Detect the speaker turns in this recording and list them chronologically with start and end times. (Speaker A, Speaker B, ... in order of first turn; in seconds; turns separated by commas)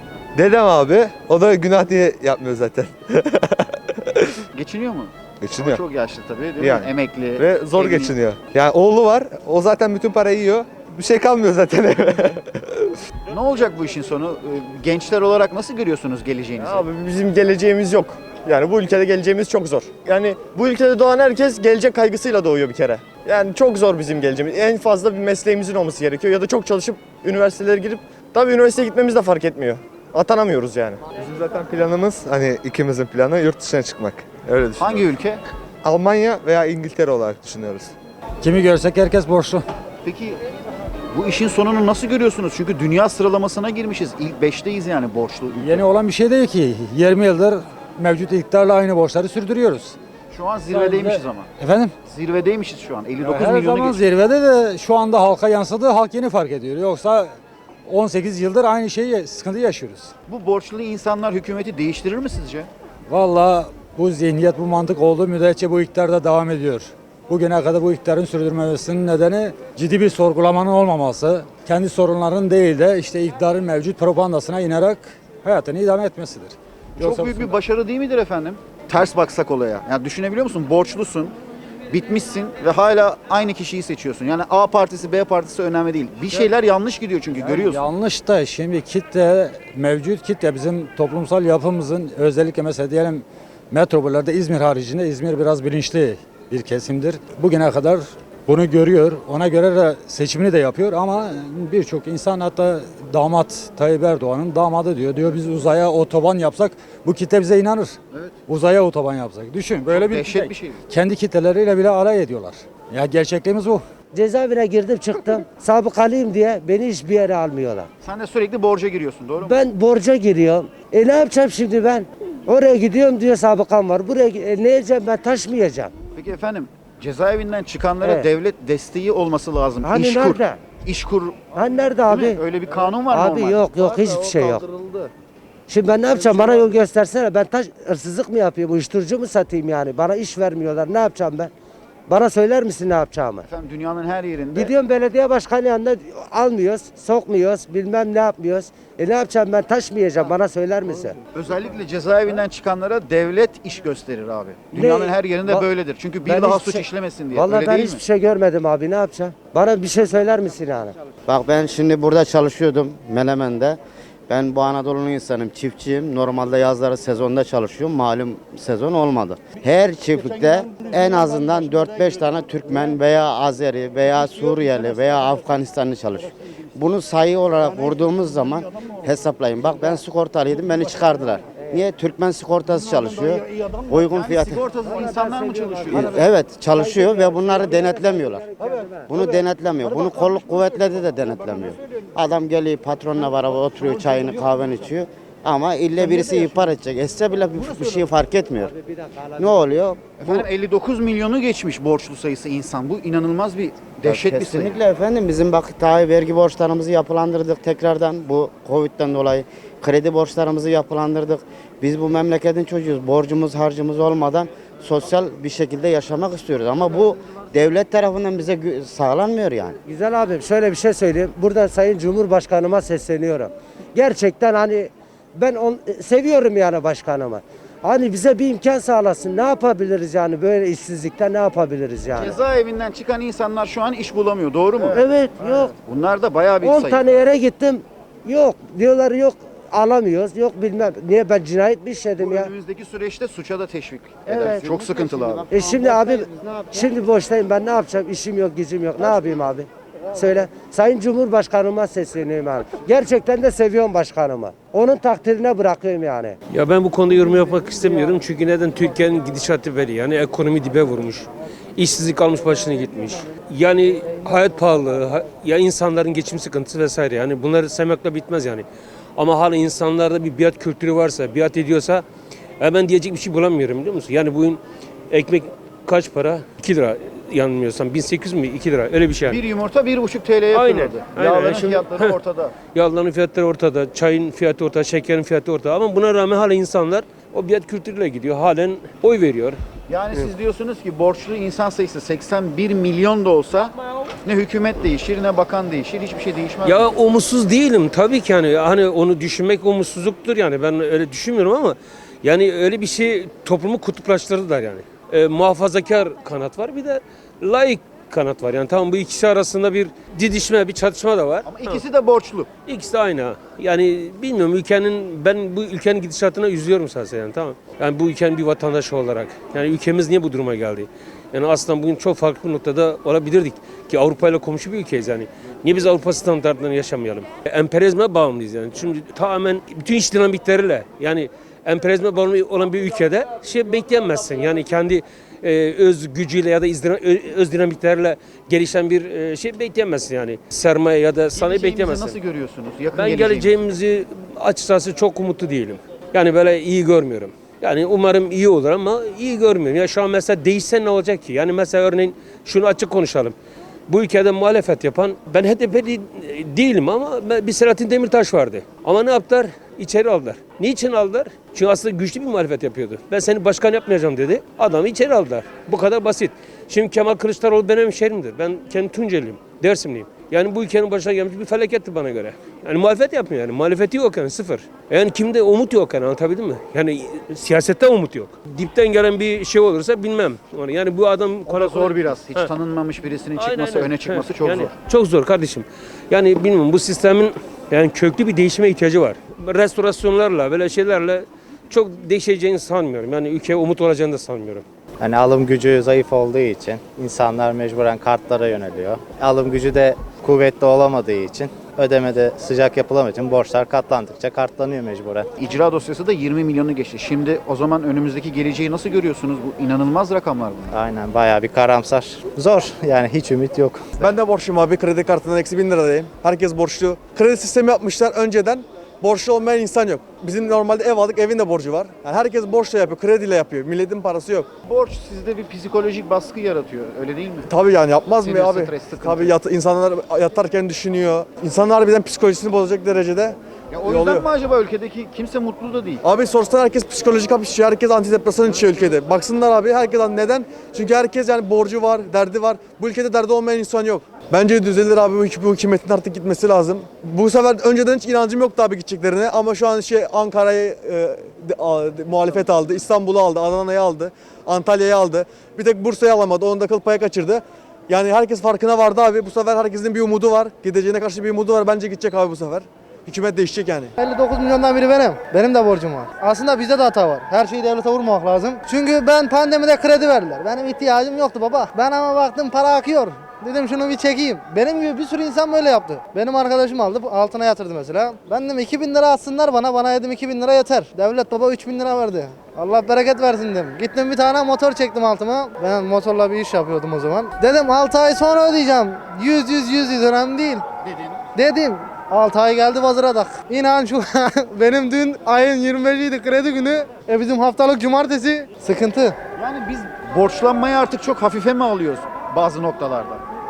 Speaker A: 0.3-3.5, Speaker B: 4.5-8.2, Speaker A: 5.4-5.8, Speaker A: 6.6-12.3, Speaker B: 13.3-16.9, Speaker C: 16.6-30.8, Speaker A: 24.6-25.9, Speaker A: 28.7-35.0, Speaker B: 34.8-35.4, Speaker A: 35.8-37.9, Speaker D: 38.4-39.6, Speaker B: 40.0-40.4, Speaker B: 41.1-45.9, Speaker D: 45.6-50.0, Speaker B: 50.3-51.5, Speaker D: 50.7-51.9, Speaker B: 52.0-54.0, Speaker D: 53.2-57.3, Speaker D: 57.9-60.1, Speaker B: 60.3-62.7, Speaker D: 63.1-77.6, Speaker B: 77.0-81.3, Speaker B: 81.9-87.8, Speaker D: 87.4-108.0, Speaker D: 108.5-113.8, Speaker B: 109.9-110.8, Speaker E: 114.1-117.9, Speaker B: 118.0-119.6, Speaker E: 119.4-125.9, Speaker B: 126.2-135.0, Speaker E: 128.0-128.3, Speaker E: 129.8-130.6, Speaker E: 131.5-132.4, Speaker E: 133.1-134.7, Speaker E: 135.7-141.5, Speaker B: 136.1-136.8, Speaker E: 142.1-143.4, Speaker B: 143.4-144.7, Speaker E: 144.5-151.2, Speaker B: 151.3-158.0, Speaker E: 154.7-155.7, Speaker E: 156.2-160.9, Speaker F: 161.3-163.8, Speaker F: 164.3-184.7, Speaker B: 184.1-186.3, Speaker F: 185.9-188.5, Speaker E: 186.8-189.1, Speaker F: 189.1-200.5, Speaker B: 200.2-204.8, Speaker F: 204.0-219.8, Speaker E: 219.9-232.4, Speaker B: 232.1-235.0, Speaker E: 234.9-235.7, Speaker B: 235.8-237.0, Speaker E: 236.6-242.5, Speaker B: 242.2-245.4, Speaker F: 244.3-246.8, Speaker E: 245.5-256.4, Speaker G: 256.5-268.6, Speaker G: 269.2-272.0, Speaker G: 272.6-274.6, Speaker G: 275.1-279.4, Speaker B: 279.2-282.5, Speaker G: 280.5-282.1, Speaker G: 282.7-289.6, Speaker B: 289.9-296.9, Speaker G: 296.6-311.8, Speaker B: 311.4-312.5, Speaker G: 312.7-342.2, Speaker B: 341.3-343.5, Speaker G: 342.9-353.3, Speaker G: 353.9-382.5, Speaker B: 381.5-384.7, Speaker G: 383.4-394.6, Speaker H: 395.0-405.2, Speaker B: 405.4-410.7, Speaker H: 410.7-414.0, Speaker I: 414.0-424.5, Speaker B: 424.6-427.5, Speaker I: 427.5-434.3, Speaker B: 428.2-429.3, Speaker B: 433.7-436.0, Speaker I: 436.0-463.9, Speaker J: 464.0-490.6, Speaker B: 490.8-491.2, Speaker J: 491.3-499.1, Speaker B: 499.4-503.2